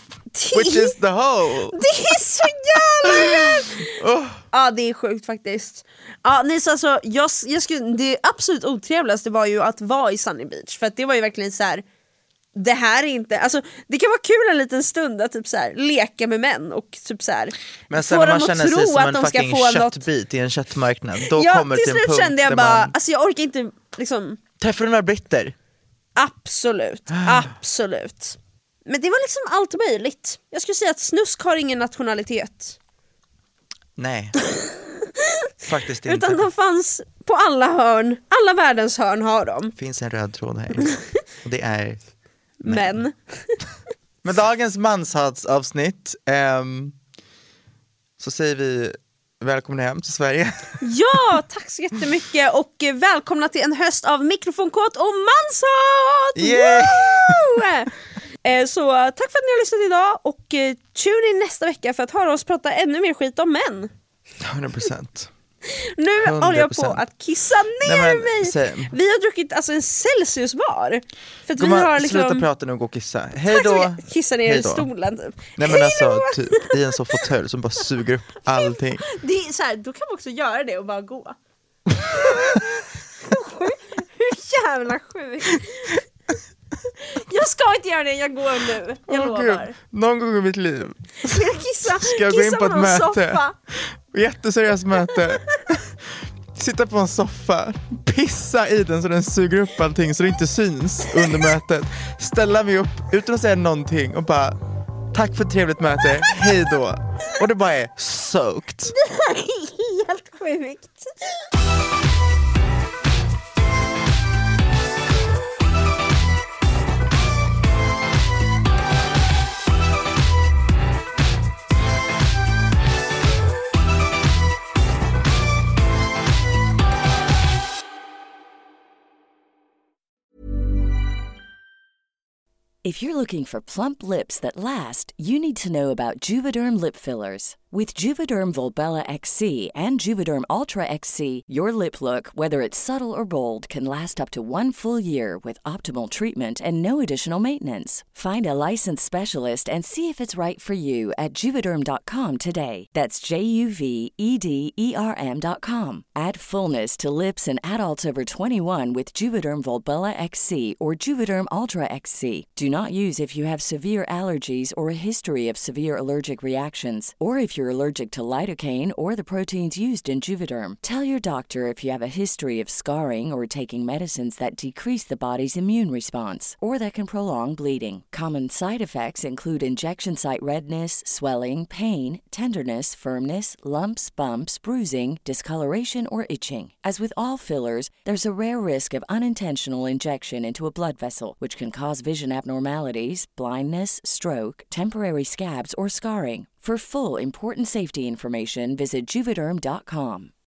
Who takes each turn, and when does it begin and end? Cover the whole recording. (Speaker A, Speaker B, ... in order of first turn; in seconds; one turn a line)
Speaker A: 0.3-0.9
Speaker B: 0.5-2.5
Speaker A: 1.7-3.9
Speaker B: 3.0-4.4
Speaker A: 4.5-11.8
Speaker A: 12.5-20.0
Speaker B: 17.9-22.9
Speaker A: 21.2-24.4
Speaker B: 24.6-25.5
Speaker A: 26.1-32.8
Speaker B: 34.0-34.3
Speaker A: 34.5-35.1
Speaker B: 35.6-36.5
Speaker A: 36.0-39.7
Speaker B: 39.8-40.9
Speaker B: 41.4-42.0
Speaker A: 42.6-43.6
Speaker B: 42.6-43.0
Speaker B: 44.2-47.0
Speaker B: 48.2-50.8
Speaker A: 50.8-57.9
Speaker B: 56.4-57.5
Speaker A: 58.4-63.9
Speaker B: 64.4-65.3
Speaker A: 65.7-72.5
Speaker B: 66.2-67.0
Speaker B: 67.8-68.9
Speaker B: 71.6-74.9
Speaker A: 73.5-77.1
Speaker B: 75.6-79.0
Speaker A: 78.5-81.3
Speaker A: 82.2-86.0
Speaker B: 82.2-82.6
Speaker A: 87.1-89.8
Speaker B: 89.1-96.0
Speaker A: 91.2-93.5
Speaker B: 96.5-104.6
Speaker B: 105.1-109.0
Speaker A: 108.9-111.1
Speaker C: 132.8-200.3